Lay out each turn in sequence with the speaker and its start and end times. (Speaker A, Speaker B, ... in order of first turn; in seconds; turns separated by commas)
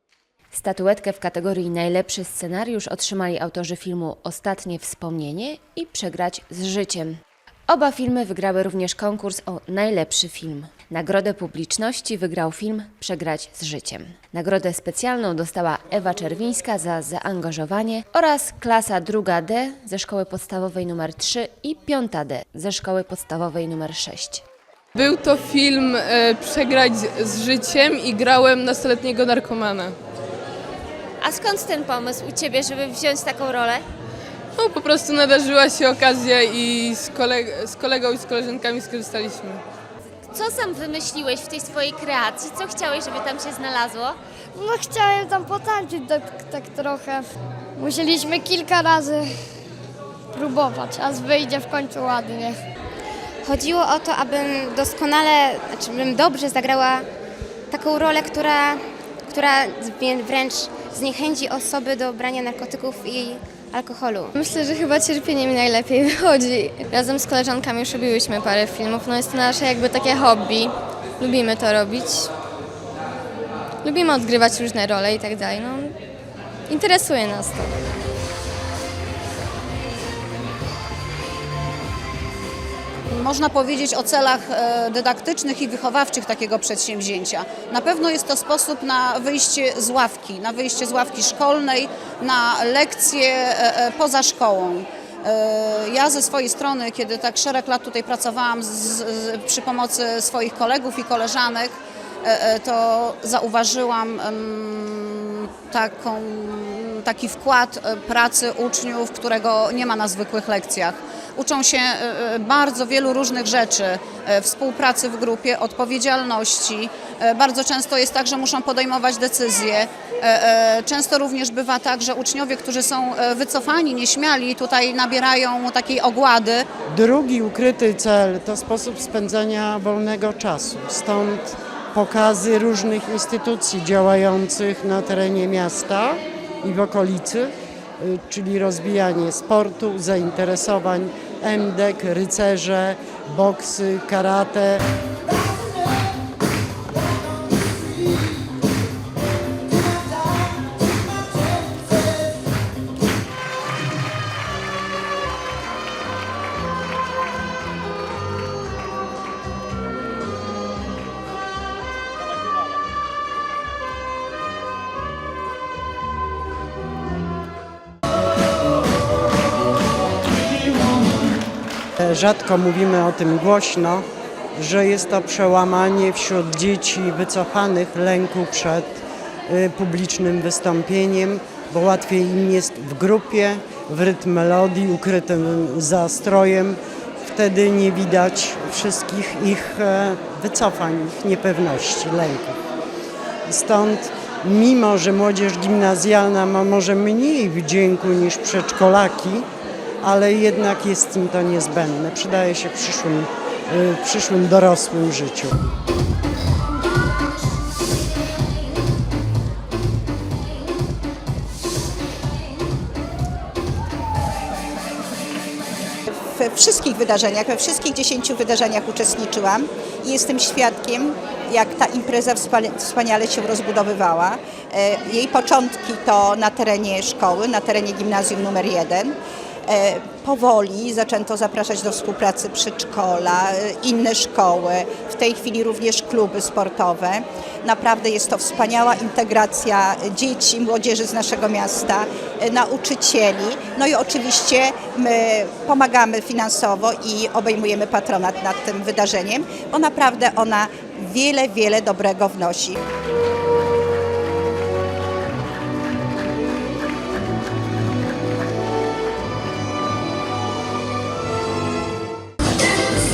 Speaker A: 0.5-24.4, Speaker B: 24.9-29.9, Speaker A: 31.2-33.9, Speaker B: 34.6-39.6, Speaker A: 40.3-44.2, Speaker C: 44.5-49.3, Speaker C: 50.3-52.6, Speaker D: 53.4-57.1, Speaker D: 57.7-64.4, Speaker E: 64.4-72.3, Speaker E: 73.8-76.0, Speaker E: 76.7-77.7, Speaker F: 83.1-126.7, Speaker G: 126.9-144.8, Speaker G: 172.0-192.6, Speaker G: 193.5-199.5, Speaker G: 200.0-205.6, Speaker H: 216.3-229.2, Speaker H: 229.7-252.8